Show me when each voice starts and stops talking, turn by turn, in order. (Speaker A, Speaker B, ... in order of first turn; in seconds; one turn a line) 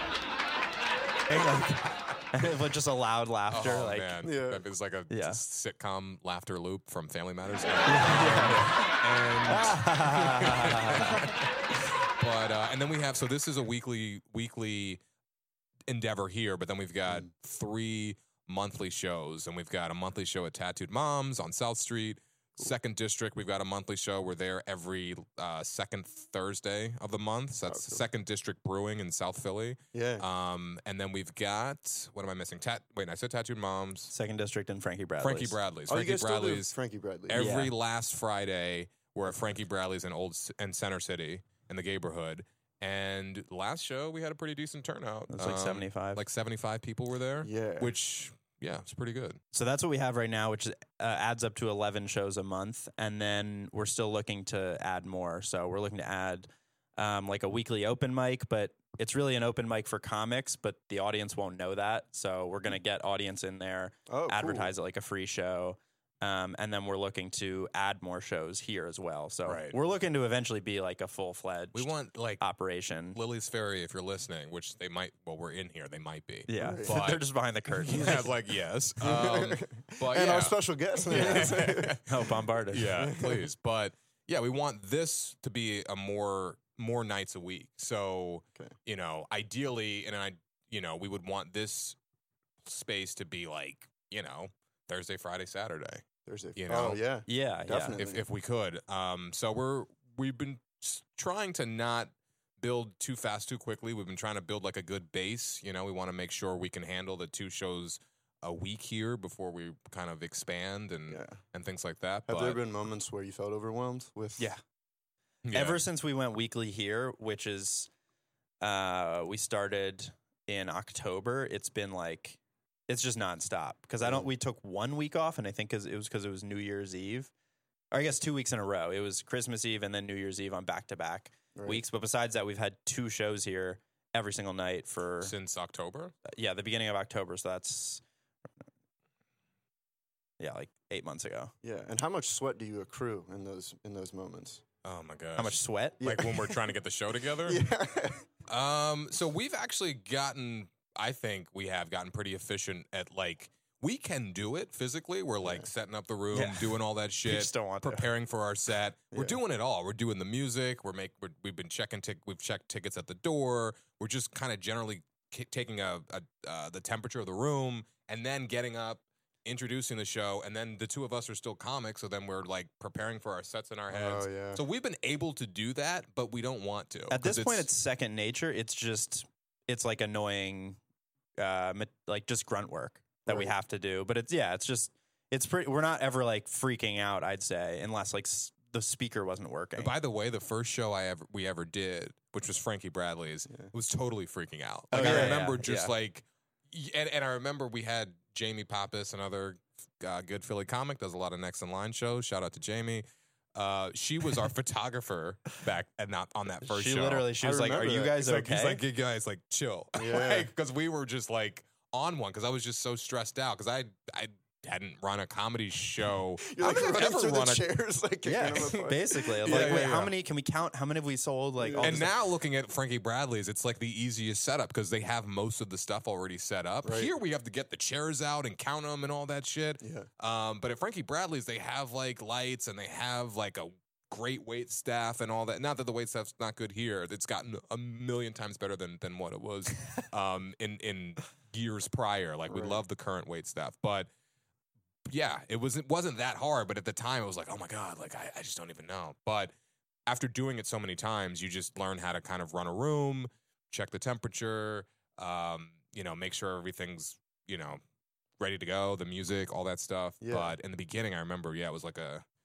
Speaker A: 1.3-4.2
Speaker B: 3.5-15.0
Speaker C: 4.2-4.7
Speaker A: 5.1-5.4
Speaker A: 7.9-8.9
Speaker A: 9.5-11.3
Speaker B: 15.9-34.1
Speaker C: 27.7-28.1
Speaker C: 29.9-30.2
Speaker A: 34.1-35.6
Speaker B: 35.2-36.7
Speaker C: 35.9-37.4
Speaker B: 37.3-49.4
Speaker A: 37.3-37.7
Speaker A: 45.3-46.2
Speaker C: 47.4-47.9
Speaker A: 49.5-73.2
Speaker C: 64.1-64.7
Speaker B: 69.5-69.8
Speaker B: 71.7-72.4
Speaker B: 73.1-92.0
Speaker A: 76.5-78.3
Speaker C: 76.6-77.0
Speaker C: 79.0-82.0
Speaker A: 81.1-83.0
Speaker C: 82.9-83.5
Speaker B: 92.7-96.0
Speaker C: 96.3-98.2
Speaker B: 96.6-97.0
Speaker A: 97.3-98.0
Speaker B: 98.0-112.6
Speaker C: 111.1-111.4
Speaker C: 112.3-114.5
Speaker B: 115.4-115.8
Speaker A: 115.5-117.9
Speaker A: 118.6-127.3
Speaker C: 124.0-124.3
Speaker A: 127.9-135.3
Speaker C: 131.6-131.8
Speaker B: 135.2-136.2
Speaker A: 136.3-138.0
Speaker A: 140.4-141.5
Speaker C: 141.6-144.6
Speaker B: 144.8-147.6
Speaker A: 145.4-146.0
Speaker C: 146.0-146.5
Speaker C: 147.5-148.3
Speaker B: 148.5-177.7
Speaker A: 156.3-158.1
Speaker C: 173.9-174.6
Speaker A: 177.1-180.8
Speaker A: 181.4-189.9
Speaker C: 183.3-183.5
Speaker B: 189.8-203.0
Speaker A: 194.9-195.9
Speaker C: 194.9-195.5
Speaker B: 203.6-207.4
Speaker A: 206.6-208.8
Speaker C: 207.4-208.2
Speaker B: 207.9-217.6
Speaker C: 209.9-210.5
Speaker C: 216.4-219.9
Speaker A: 218.2-222.1
Speaker B: 218.5-218.9
Speaker B: 219.4-220.1
Speaker C: 221.6-222.1
Speaker B: 221.8-244.1
Speaker C: 226.8-227.1
Speaker C: 229.8-230.1
Speaker C: 242.5-242.8
Speaker B: 245.1-249.5
Speaker B: 250.1-257.8
Speaker B: 258.4-262.2
Speaker C: 260.2-260.6